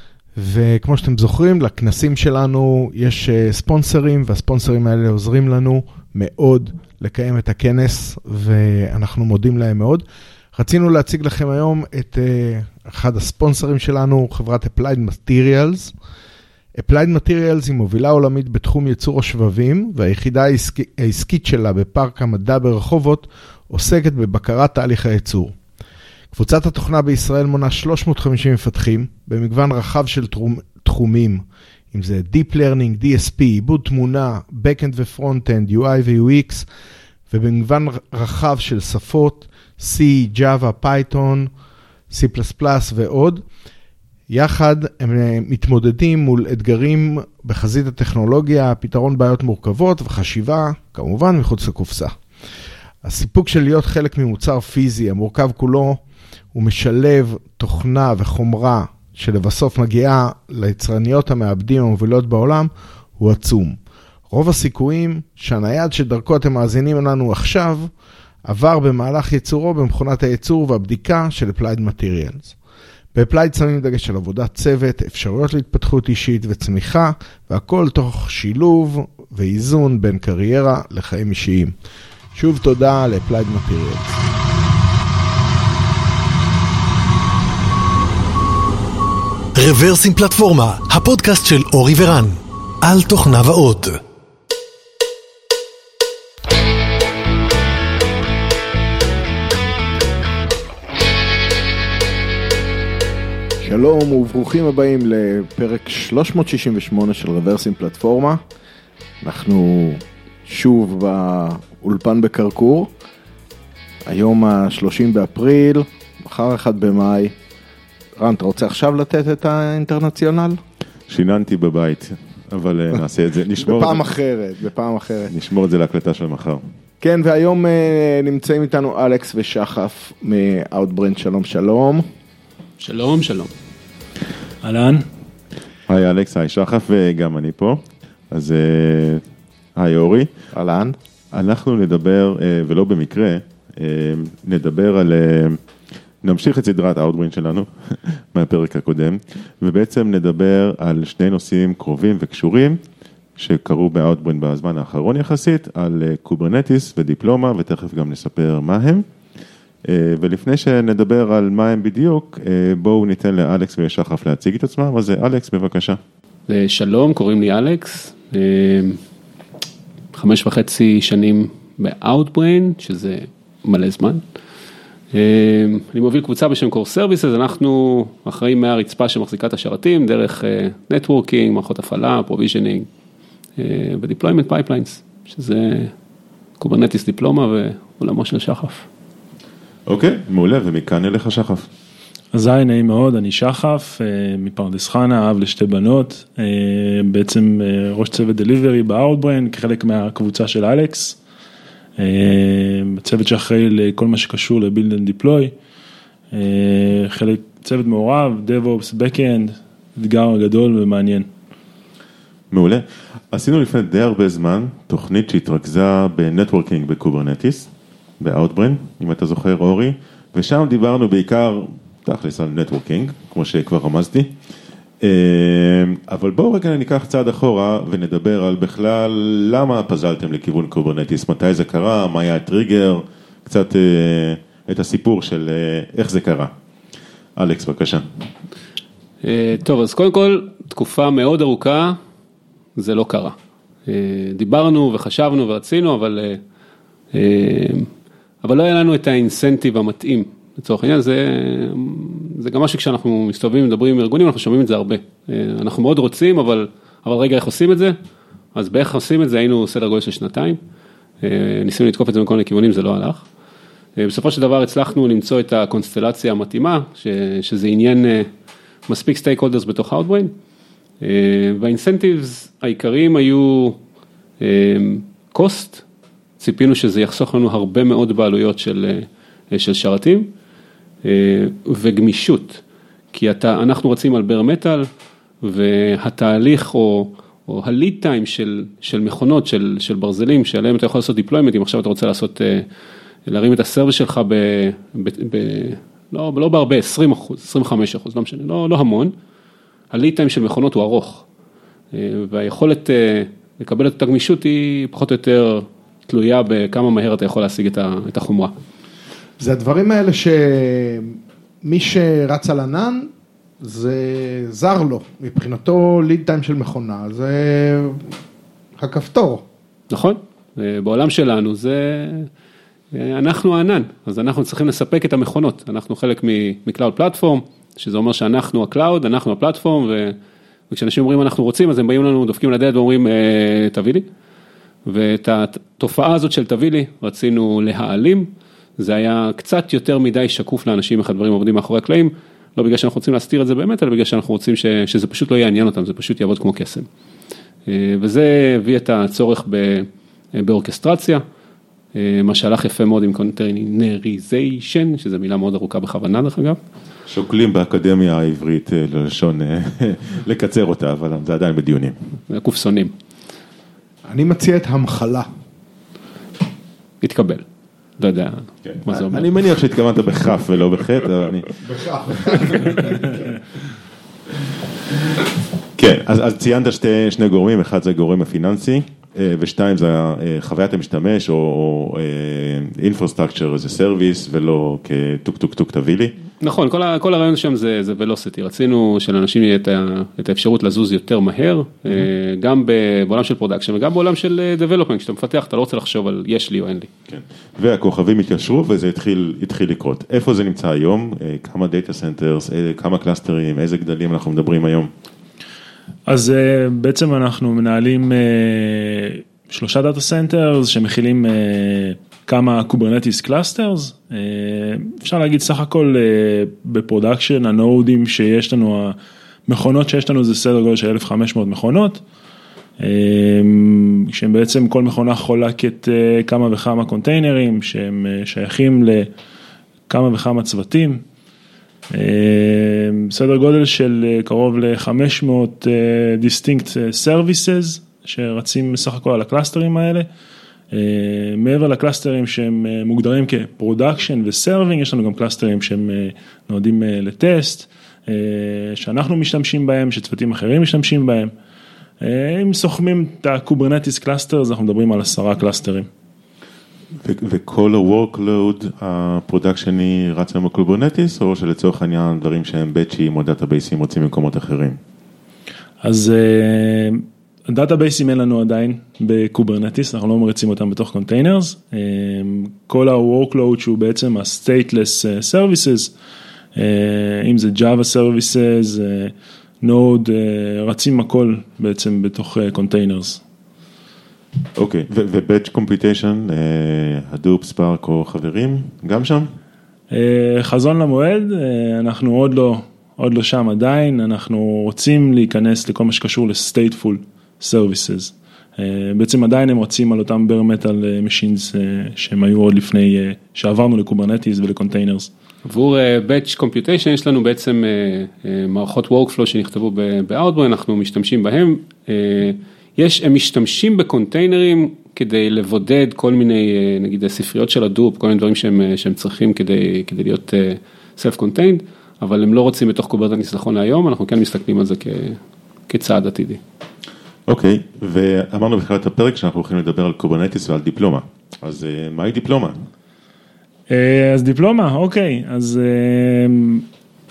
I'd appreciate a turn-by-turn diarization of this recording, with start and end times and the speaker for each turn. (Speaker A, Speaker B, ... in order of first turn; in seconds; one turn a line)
Speaker A: 0.3-15.9
Speaker A: 16.7-25.5
Speaker A: 26.3-36.6
Speaker A: 37.3-41.5
Speaker A: 42.1-43.4
Speaker A: 44.3-52.2
Speaker A: 53.0-56.0
Speaker A: 56.5-63.8
Speaker A: 64.3-67.9
Speaker A: 68.4-72.5
Speaker A: 73.1-81.8
Speaker A: 82.3-84.2
Speaker B: 89.5-94.0
Speaker A: 103.6-108.4
Speaker A: 109.2-112.9
Speaker A: 114.0-117.3
Speaker A: 118.2-120.6
Speaker C: 121.1-124.0
Speaker A: 123.6-125.3
Speaker C: 125.3-126.6
Speaker A: 127.0-132.0
Speaker D: 132.8-133.5
Speaker E: 134.6-135.1
Speaker C: 135.9-139.2
Speaker C: 139.8-140.3
Speaker A: 140.5-140.9
Speaker C: 141.3-145.6
Speaker C: 146.2-152.8
Speaker C: 153.4-159.1
Speaker C: 159.8-166.0
Speaker D: 166.5-169.0
Speaker D: 170.1-174.2
Speaker D: 175.1-182.9
Speaker D: 183.6-185.9
Speaker D: 186.6-188.8
Speaker C: 189.9-191.7
Speaker E: 192.3-201.2
Speaker E: 202.0-205.5
Speaker E: 206.3-211.3
Speaker C: 212.5-224.3
Speaker C: 225.0-236.5
Speaker C: 237.4-238.0
Speaker D: 239.2-242.0
Speaker D: 242.8-243.3
Speaker D: 243.9-246.4
Speaker D: 247.1-247.9
Speaker D: 248.4-257.9
Speaker D: 258.5-260.6
Speaker D: 261.2-263.2
Speaker D: 264.0-268.3
Speaker D: 268.9-270.3
Speaker D: 271.0-273.8
Speaker D: 274.4-275.8
Speaker D: 276.4-280.3
Speaker D: 281.0-282.6
Speaker D: 283.1-284.9
Speaker D: 285.4-292.6
Speaker D: 293.3-299.1
Speaker D: 299.9-301.2
Speaker D: 301.9-308.5
Speaker A: 309.4-313.1
Speaker A: 313.6-318.1
Speaker A: 318.8-319.4
Speaker D: 319.9-322.3
Speaker D: 322.9-330.1
Speaker D: 330.7-334.1
Speaker D: 334.9-346.9
Speaker D: 347.6-351.2
Speaker D: 351.9-356.6
Speaker C: 357.1-361.9
Speaker D: 362.3-362.9
Speaker A: 364.1-365.3
Speaker D: 367.0-367.4
Speaker D: 368.0-369.3
Speaker C: 368.6-371.6
Speaker A: 371.6-373.2
Speaker C: 375.8-386.1
Speaker D: 386.4-396.9
Speaker C: 397.1-404.9
Speaker E: 406.1-418.9
Speaker E: 419.5-422.0
Speaker E: 422.8-429.1
Speaker E: 429.9-431.0
Speaker E: 431.9-440.1
Speaker E: 440.7-451.3
Speaker E: 452.0-455.9
Speaker C: 457.0-464.8
Speaker E: 465.8-475.9
Speaker E: 476.5-483.2
Speaker C: 484.6-489.3
Speaker E: 489.9-505.1
Speaker D: 505.4-526.4
Speaker C: 527.3-532.6
Speaker E: 533.7-536.6